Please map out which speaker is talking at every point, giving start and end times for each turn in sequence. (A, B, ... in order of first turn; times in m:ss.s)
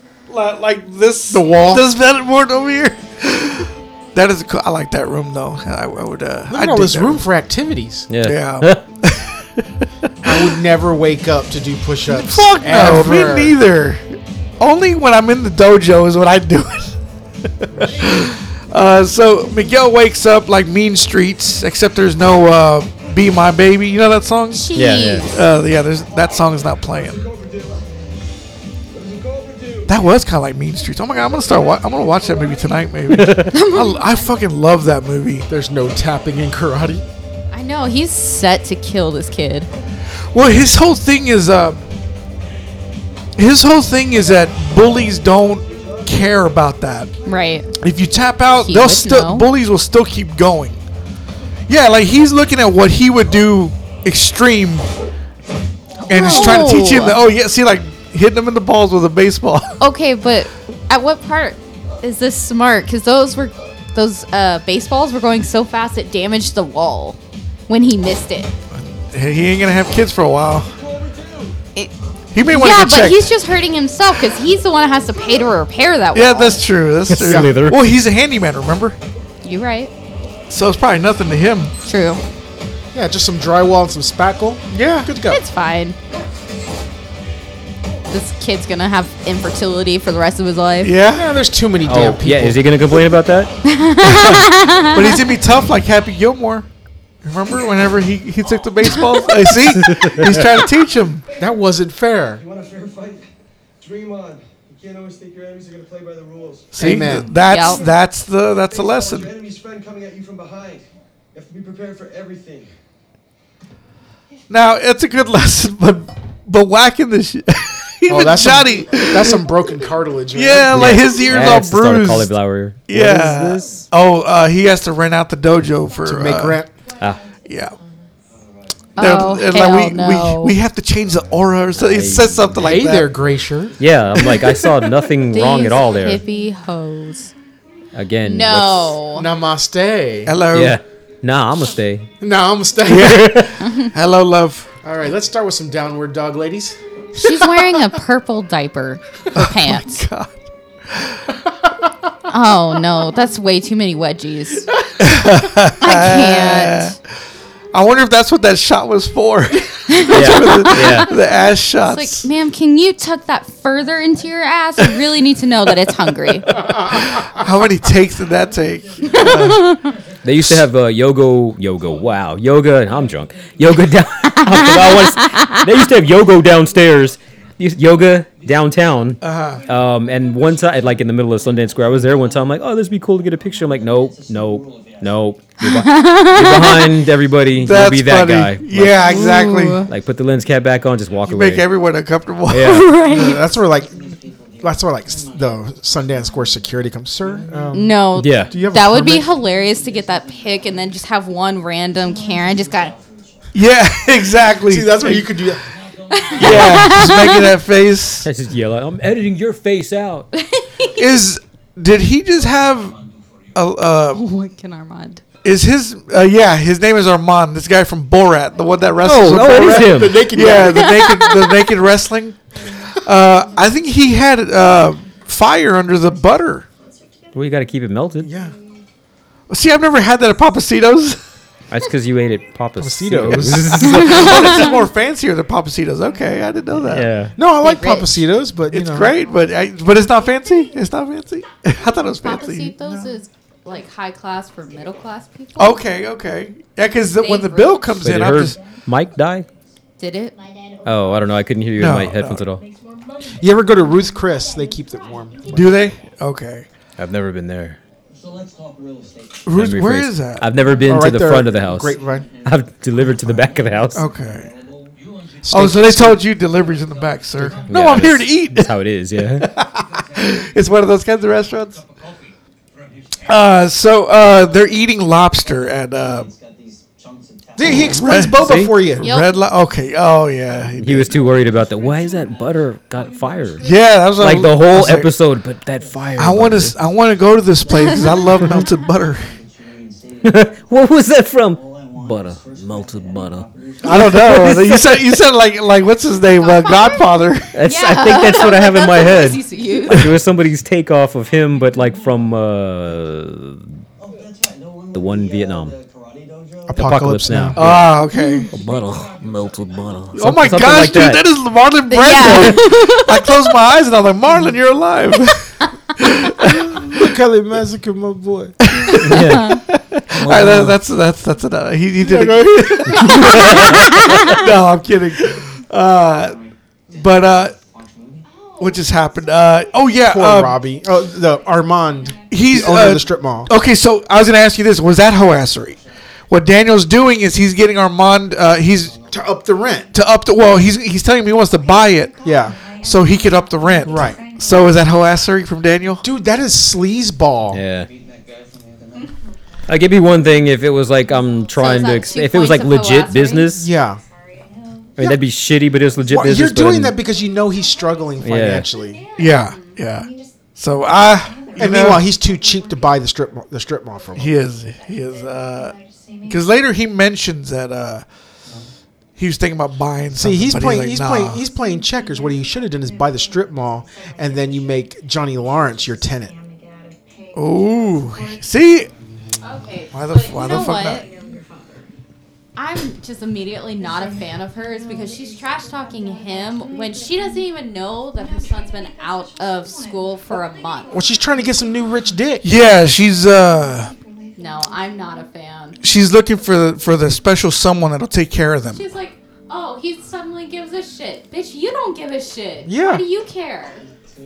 0:00.3-0:07.2 A
0:01.3-0:01.8 B
0:06.5-0:08.1 B
0:08.1-0:08.8 C
0:08.2-0:10.4 A
0:10.2-0:13.6 B
0:12.1-0:16.9 A
0:17.6-0:27.2 A
0:24.5-0:25.4 D
0:24.7-0:25.3 C
0:29.1-0:29.8 E
0:29.9-0:35.4 A
0:33.1-0:33.5 C
0:33.5-0:34.0 D
0:35.5-0:37.0 B
0:37.5-0:39.7 D
0:40.3-0:41.8 A
0:43.4-0:47.1 A
0:47.2-0:47.7 D
0:47.8-0:50.8 A
0:48.6-0:49.4 D
0:51.7-0:54.9 A
0:56.0-0:57.2 D
0:56.1-0:59.8 A
0:59.8-1:08.5 D
1:08.7-1:10.7 A
1:11.0-1:11.5 E
1:12.3-1:13.3 A
1:12.5-1:16.6 D
1:16.1-1:19.0 A
1:17.1-1:17.8 C
1:17.2-1:17.5 B
1:19.4-1:19.9 D
1:20.5-1:21.7 A
1:21.8-1:22.2 D
1:22.9-1:25.4 B
1:24.7-1:25.1 A
1:25.3-1:26.0 D
1:28.1-1:30.9 D
1:30.8-1:31.3 A
1:31.1-1:33.0 B
1:31.8-1:33.5 C
1:33.6-1:35.2 D
1:34.0-1:36.6 A
1:37.2-1:41.2 A
1:39.8-1:40.4 C
1:41.4-1:42.4 B
1:42.4-1:43.2 E
1:43.8-1:46.7 E
1:46.7-1:49.3 A
1:46.8-1:47.3 B
1:47.4-1:47.8 D
1:48.8-1:52.7 E
1:54.5-1:59.4 A
1:58.1-2:01.0 B
2:00.3-2:02.3 A
2:00.7-2:03.8 C
2:02.9-2:06.6 A
2:06.0-2:06.7 B
2:07.4-2:07.7 A
2:09.0-2:10.5 D
2:09.0-2:13.1 A
2:11.7-2:12.9 C
2:12.6-2:13.8 B
2:13.8-2:16.2 C
2:14.6-2:14.9 A
2:15.3-2:17.3 D
2:17.9-2:19.0 C
2:18.2-2:19.3 D
2:19.1-2:20.3 B
2:20.2-2:20.8 A
2:20.5-2:22.1 C
2:22.2-2:23.3 B
2:22.8-2:24.7 A
2:23.0-2:23.5 C
2:23.6-2:23.9 D
2:24.8-2:26.8 B
2:27.2-2:30.0 D
2:29.3-2:30.3 A
2:30.9-2:31.2 A
2:32.3-2:34.7 D
2:35.0-2:37.0 A
2:35.8-2:36.9 D
2:37.7-2:42.2 A
2:39.9-2:41.1 D
2:40.1-2:41.1 C
2:41.9-2:46.5 D
2:45.8-2:49.8 A
2:46.7-2:47.0 B
2:49.1-2:49.9 D
2:50.2-3:09.1 C
2:50.3-2:50.6 A
2:54.4-2:55.6 D
2:59.2-2:59.6 A
3:05.6-3:07.0 D
3:07.6-3:09.8 A
3:09.0-3:09.9 D
3:09.9-3:11.6 C
3:11.3-3:13.2 A
3:12.5-3:12.9 C
3:12.6-3:13.4 D
3:13.0-3:13.9 B
3:14.6-3:19.3 B
3:17.7-3:23.0 D
3:18.1-3:18.5 C
3:23.5-3:25.4 A
3:24.7-3:25.6 B
3:26.1-3:27.5 D
3:26.4-3:28.3 A
3:28.2-3:30.3 C
3:30.3-3:31.0 D
3:30.9-3:33.0 A
3:33.5-3:34.2 A
3:34.1-3:35.2 D
3:35.4-3:42.4 A
3:39.0-3:40.2 C
3:39.3-3:40.9 B
3:40.5-3:41.6 D
3:42.9-3:46.6 A
3:47.3-3:48.3 C
3:48.2-3:48.6 B
3:49.5-3:51.2 A
3:51.7-3:54.6 C
3:52.8-3:54.2 B
3:53.5-3:57.1 A
3:53.9-3:54.7 D
3:56.8-3:57.3 C
3:57.4-3:59.1 B
3:57.6-3:58.2 D
3:58.7-4:02.7 A
4:02.2-4:05.8 D
4:02.8-4:03.1 B
4:05.6-4:08.6 A
4:07.2-4:07.9 D
4:08.0-4:09.5 C
4:10.0-4:10.3 D
4:10.8-4:12.6 C
4:11.8-4:12.4 A
4:13.4-4:15.8 B
4:15.5-4:16.6 A
4:17.0-4:17.8 C
4:19.4-4:20.4 A
4:19.5-4:24.0 C
4:20.8-4:22.3 B
4:23.9-4:24.5 A
4:25.4-4:26.2 B
4:25.5-4:28.7 A
4:27.4-4:28.0 B
4:27.7-4:29.4 C
4:29.4-4:31.8 A
4:33.3-4:36.3 A
4:37.6-4:39.1 B
4:37.7-4:41.2 A
4:38.4-4:38.7 C
4:39.0-4:39.3 D
4:40.8-4:43.6 C
4:43.6-4:45.1 A
4:44.2-4:46.7 C
4:46.2-4:49.3 A
4:50.2-4:55.2 C
4:53.8-4:57.5 A
4:56.4-4:57.0 D
4:57.5-5:03.7 C
4:57.6-5:00.1 D
4:59.9-5:00.2 A
5:04.9-5:05.8 C
5:06.7-5:07.6 B
5:06.7-5:08.0 C
5:07.5-5:08.5 A
5:08.1-5:08.5 D
5:08.5-5:11.2 C
5:10.1-5:17.0 A
5:11.9-5:13.3 D
5:16.8-5:18.5 B
5:18.6-5:26.4 A
5:18.9-5:20.8 C
5:19.1-5:19.6 D
5:22.0-5:23.5 B
5:23.0-5:24.4 D
5:26.9-5:27.5 A
5:28.6-5:30.6 A
5:30.0-5:33.5 B
5:32.3-5:39.0 A
5:39.1-5:39.9 B
5:39.9-5:42.1 A
5:42.2-5:42.6 B
5:42.8-5:46.0 A
5:43.8-5:44.2 B
5:46.0-5:47.6 B
5:47.5-5:47.9 C
5:49.7-5:53.7 C
5:51.5-5:53.6 D
5:53.6-5:54.0 B
5:55.0-5:56.9 C
5:56.1-5:59.0 B
5:58.2-5:58.6 C
5:59.2-6:02.0 A
6:01.6-6:04.3 B
6:04.2-6:08.0 A
6:09.2-6:11.4 A
6:10.1-6:16.3 B
6:17.3-6:18.9 A
6:19.4-6:21.1 D
6:19.9-6:21.0 A
6:22.6-6:30.9 D
6:30.9-6:32.5 B
6:32.4-6:33.9 A
6:34.4-6:35.8 D
6:35.8-6:38.8 A
6:38.7-6:43.8 D
6:42.6-6:43.0 B